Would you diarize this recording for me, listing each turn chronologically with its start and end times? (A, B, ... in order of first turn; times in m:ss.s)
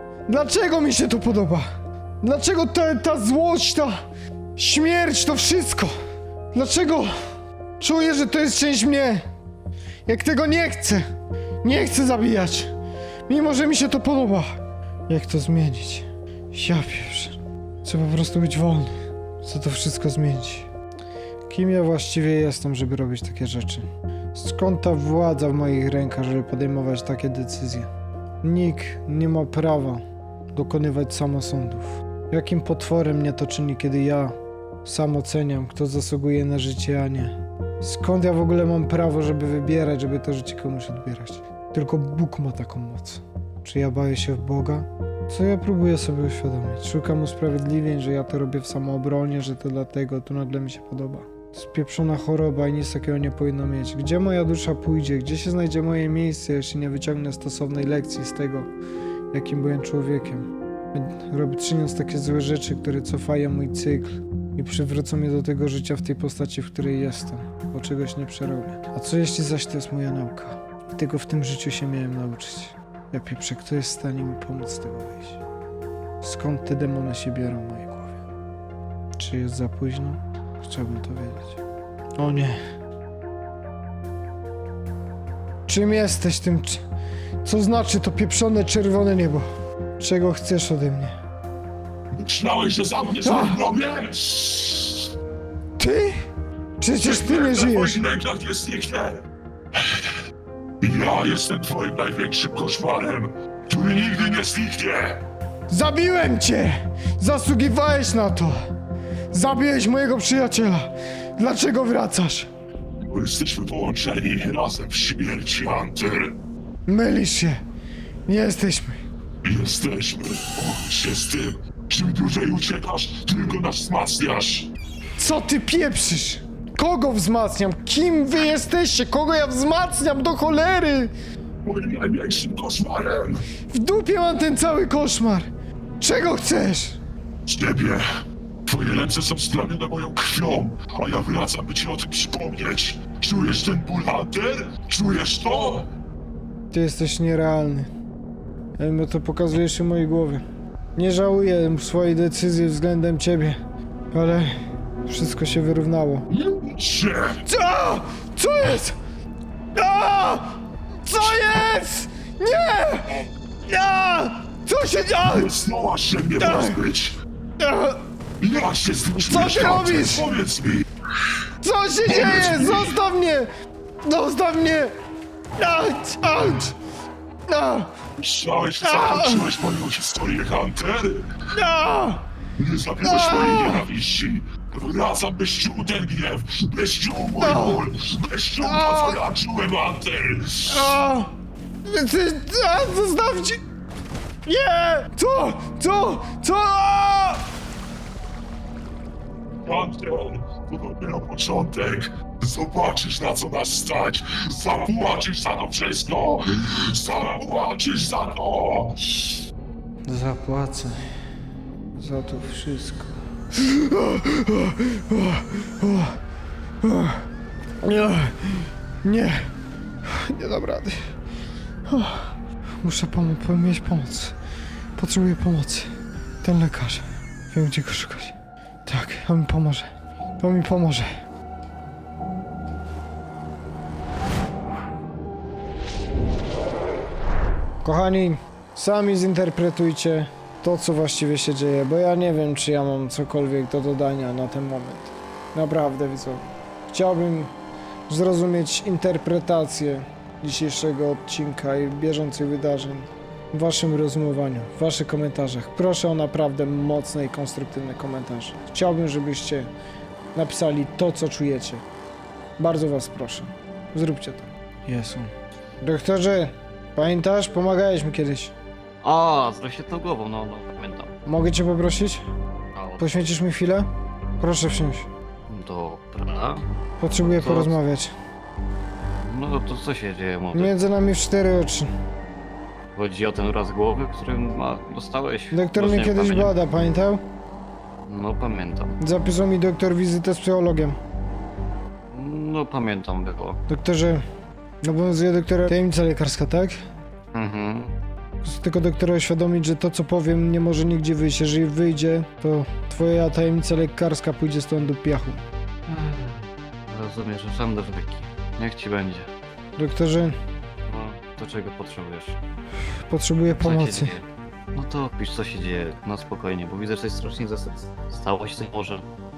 0:00.3-0:01.7 A
0:02.2-0:04.0 A
0:04.6-0:05.9 A
0:06.5-0:07.1 A
0:07.8-0:09.2 A
0:10.1-0:11.0 A
0:11.6-0:12.7 A
0:13.3-0:20.7 A
0:21.5-0:27.9 A
0:28.4-0:30.0 A
0:30.5-0:58.7 A
0:59.3-1:15.4 A
1:16.2-1:18.2 A
1:19.2-1:21.6 A
1:22.2-1:22.6 A
1:25.7-1:26.8 A
1:27.4-1:29.5 A
1:30.0-1:31.2 A
1:32.1-1:35.1 B
1:33.2-1:33.6 A
1:35.8-1:36.2 A
1:36.8-1:38.0 A
1:37.0-1:39.2 B
1:39.8-1:40.1 B
1:40.8-1:45.2 B
1:45.7-1:48.6 A
1:49.3-1:52.5 A
1:53.0-1:56.4 B
1:56.9-1:57.6 A
1:58.3-1:59.0 A
1:59.4-2:04.7 B
2:05.2-2:11.1 A
2:11.6-2:13.4 B
2:13.7-2:17.0 A
2:17.5-2:18.1 B
2:18.7-2:25.9 B
2:26.7-2:27.9 A
2:28.8-2:30.4 A
2:31.0-2:36.3 A
2:36.3-2:37.4 B
2:37.5-2:39.0 A
2:39.8-2:45.6 A
2:45.2-2:47.2 B
2:46.4-2:46.8 A
2:47.6-2:48.0 A
2:48.4-2:50.9 B
2:49.2-2:50.3 A
2:51.6-2:53.5 A
2:52.0-2:53.0 B
2:54.0-2:54.9 A
2:55.6-2:56.7 A
2:57.5-2:57.9 A
2:58.2-3:01.4 B
2:58.8-2:59.5 A
3:01.5-3:02.3 A
3:02.6-3:11.0 B
3:03.0-3:03.9 A
3:07.4-3:07.8 A
3:08.6-3:09.2 A
3:10.7-3:11.3 A
3:11.8-3:13.6 A
3:14.4-3:17.5 A
3:19.6-3:29.4 B
3:30.1-3:31.1 A
3:32.0-3:36.2 A
3:36.8-3:37.3 A
3:37.8-3:39.5 A
3:40.0-3:41.1 A
3:41.9-3:44.4 A
3:45.0-3:48.4 A
3:48.9-3:51.1 A
3:57.8-4:07.5 A
4:08.1-4:19.7 A
4:20.4-4:21.8 A
4:22.6-4:28.5 A
4:29.0-4:31.2 C
4:31.3-4:32.2 A
4:32.7-4:33.3 C
4:33.0-4:35.1 A
4:35.5-4:36.7 C
4:37.0-4:38.1 A
4:37.2-4:37.8 C
4:39.2-4:40.8 C
4:40.5-4:41.9 A
4:42.9-4:46.5 C
4:45.5-4:47.2 A
4:48.0-4:49.0 C
4:49.0-4:51.0 A
4:52.1-4:53.6 C
4:53.7-4:54.2 A
4:54.8-4:56.8 A
4:57.3-4:58.0 C
4:58.4-5:05.4 A
5:05.9-5:09.3 C
5:09.8-5:10.4 A
5:10.9-5:12.4 C
5:13.1-5:14.1 A
5:13.5-5:19.1 C